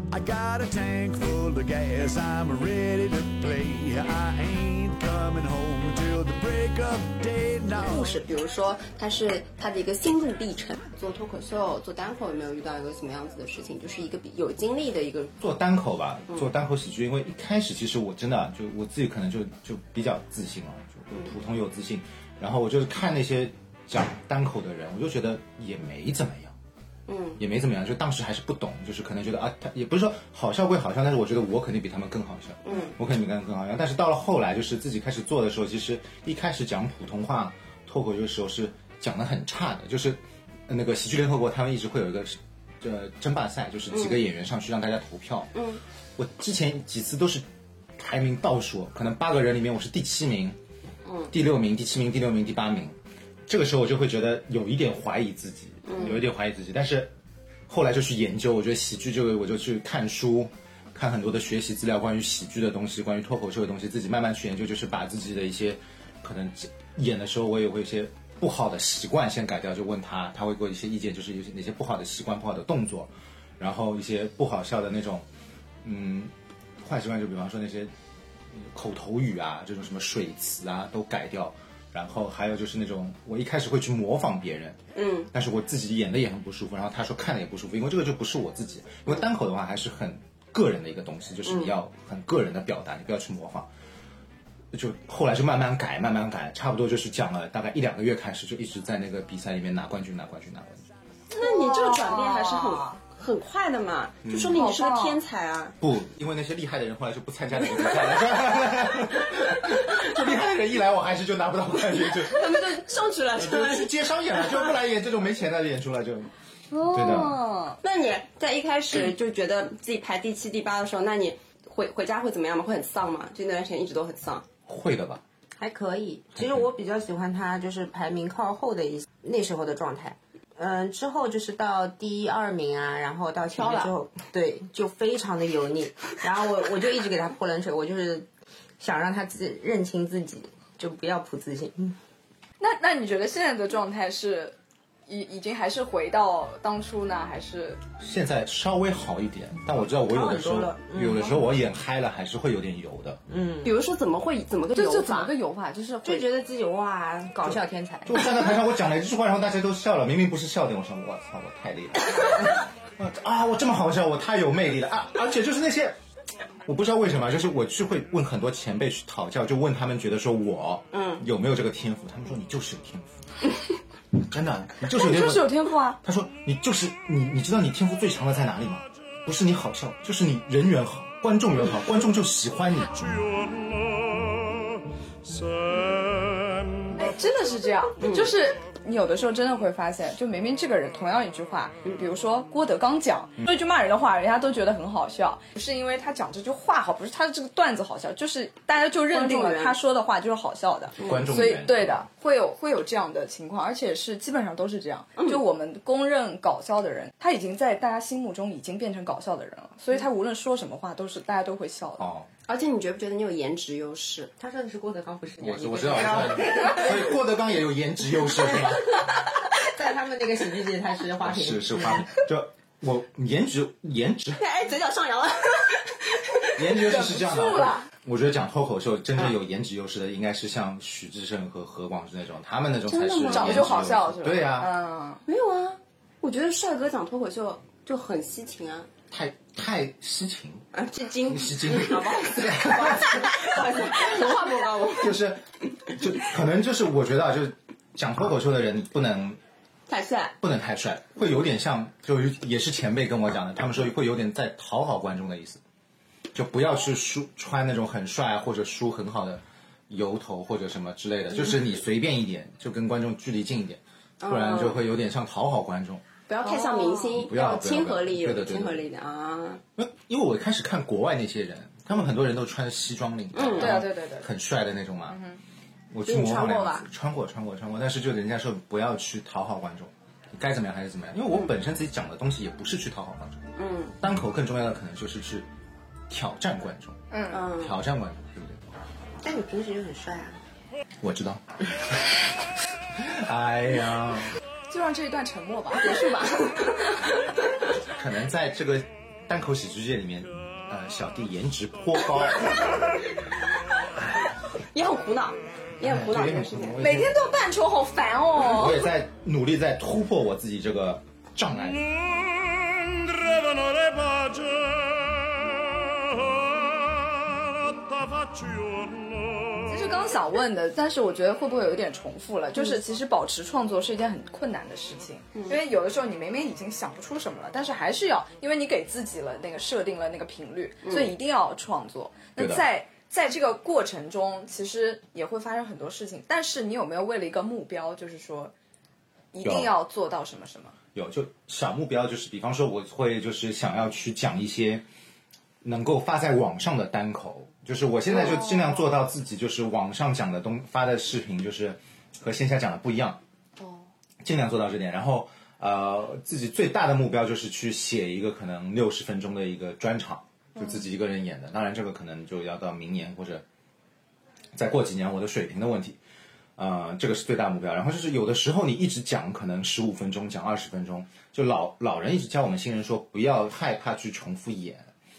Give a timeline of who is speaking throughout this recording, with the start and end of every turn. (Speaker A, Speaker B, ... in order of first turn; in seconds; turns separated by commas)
Speaker A: 0.1-8.2, Speaker B: 7.7-15.3, Speaker C: 15.4-26.5, Speaker B: 27.1-27.4, Speaker C: 27.4-45.5, Speaker B: 32.6-33.0, Speaker B: 43.9-44.2, Speaker B: 45.5-45.8, Speaker C: 46.2-47.4, Speaker C: 48.0-50.6, Speaker B: 51.0-51.3, Speaker C: 51.3-57.1, Speaker B: 55.9-56.2, Speaker C: 57.7-75.2, Speaker C: 75.8-77.9, Speaker C: 78.5-84.8, Speaker B: 85.0-85.3, Speaker C: 85.3-93.7, Speaker B: 91.5-91.7, Speaker C: 94.7-100.9, Speaker B: 101.3-105.8, Speaker D: 101.4-103.0, Speaker C: 104.2-104.6, Speaker D: 104.5-105.2, Speaker C: 105.8-112.7, Speaker B: 112.2-114.7, Speaker C: 113.3-116.3, Speaker D: 116.7-117.8, Speaker C: 116.8-117.4, Speaker B: 117.8-124.5, Speaker C: 124.7-125.2, Speaker E: 125.6-138.3, Speaker C: 126.4-126.6, Speaker B: 133.5-133.9, Speaker E: 138.8-142.0, Speaker D: 142.6-144.6, Speaker D: 145.1-147.8, Speaker C: 148.0-153.2, Speaker E: 150.1-151.4, Speaker E: 153.3-153.7, Speaker B: 153.6-155.3, Speaker D: 154.7-156.3, Speaker E: 156.0-158.3, Speaker C: 158.1-166.0, Speaker C: 166.6-173.2, Speaker B: 170.9-171.2, Speaker C: 174.2-183.3, Speaker D: 174.9-176.0, Speaker D: 186.9-212.0, Speaker B: 188.0-188.3, Speaker B: 199.1-199.8, Speaker C: 201.0-202.0, Speaker B: 201.0-201.3, Speaker C: 212.0-212.3, Speaker B: 212.5-214.3, Speaker E: 214.4-216.9, Speaker C: 215.4-218.9, Speaker E: 219.6-222.1, Speaker C: 221.2-224.4, Speaker B: 224.4-225.9, Speaker C: 226.5-234.7, Speaker D: 226.8-227.9, Speaker B: 232.8-233.9, Speaker D: 233.2-235.2, Speaker B: 235.2-238.9, Speaker C: 239.1-240.7, Speaker B: 240.7-245.1, Speaker C: 241.2-243.4, Speaker C: 244.9-249.4, Speaker B: 249.9-250.3, Speaker C: 250.4-255.6, Speaker C: 256.3-266.0, Speaker B: 264.2-264.8, Speaker B: 266.3-269.6, Speaker D: 266.4-267.1, Speaker C: 267.1-268.9, Speaker C: 269.8-275.2, Speaker B: 273.3-273.8, Speaker D: 273.6-274.3, Speaker D: 275.1-275.4, Speaker C: 275.9-285.5, Speaker B: 276.0-276.9, Speaker B: 283.6-284.0, Speaker C: 286.1-287.0, Speaker D: 287.1-287.4, Speaker B: 287.3-287.8, Speaker C: 287.5-288.6, Speaker E: 289.2-290.4, Speaker C: 291.0-291.4, Speaker C: 292.9-294.3, Speaker D: 294.7-296.6, Speaker B: 295.8-297.0, Speaker C: 297.8-302.6, Speaker B: 304.7-306.8, Speaker C: 305.8-307.2, Speaker D: 306.8-308.8, Speaker C: 308.4-311.9, Speaker D: 319.7-338.5, Speaker B: 330.8-331.1, Speaker C: 332.4-332.6, Speaker D: 339.3-340.8, Speaker C: 339.4-339.8, Speaker C: 340.9-344.8, Speaker C: 345.6-353.2, Speaker C: 354.2-363.4, Speaker C: 364.5-366.0, Speaker C: 366.6-374.9